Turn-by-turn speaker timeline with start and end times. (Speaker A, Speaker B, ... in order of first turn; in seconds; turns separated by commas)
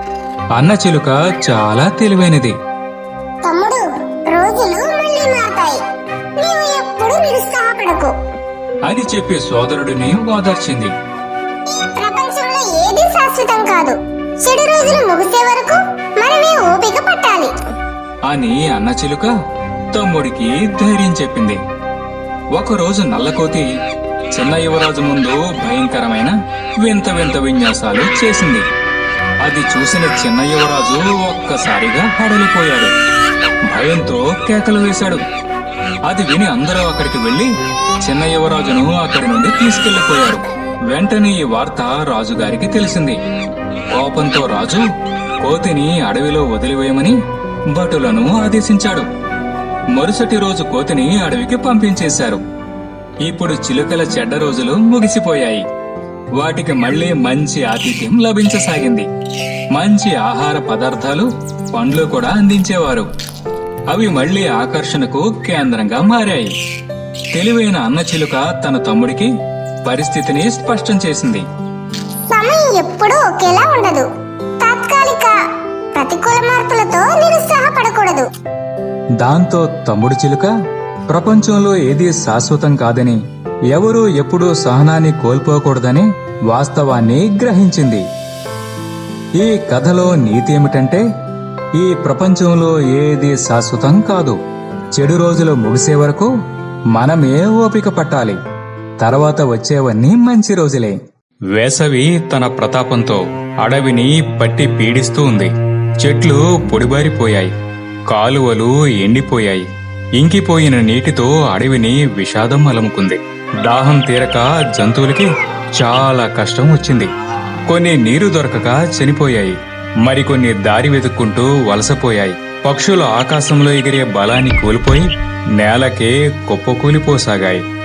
Speaker A: 0.5-2.5, Speaker B: 3.4-5.8, Speaker B: 6.4-8.1, Speaker A: 8.8-10.9, Speaker B: 11.7-17.5, Speaker A: 18.3-19.3, Speaker A: 19.9-21.6, Speaker A: 22.5-23.7, Speaker A: 24.3-28.6, Speaker A: 29.4-32.9, Speaker A: 33.7-35.2, Speaker A: 36.0-37.5, Speaker A: 38.0-43.2, Speaker A: 43.9-44.9, Speaker A: 45.4-47.1, Speaker A: 47.7-49.1, Speaker A: 49.9-52.4, Speaker A: 53.2-55.6, Speaker A: 56.4-59.1, Speaker A: 59.7-63.1, Speaker A: 63.9-66.5, Speaker A: 67.3-69.3, Speaker A: 69.8-71.4, Speaker B: 72.3-74.1, Speaker B: 74.6-75.3, Speaker B: 75.9-78.3, Speaker A: 79.2-80.5, Speaker A: 81.1-83.2, Speaker A: 83.7-88.0, Speaker A: 89.4-91.0, Speaker A: 91.8-94.4, Speaker A: 94.9-96.3, Speaker A: 96.9-98.4, Speaker A: 99.0-101.0, Speaker A: 101.5-107.5, Speaker A: 108.1-117.1, Speaker A: 117.7-127.6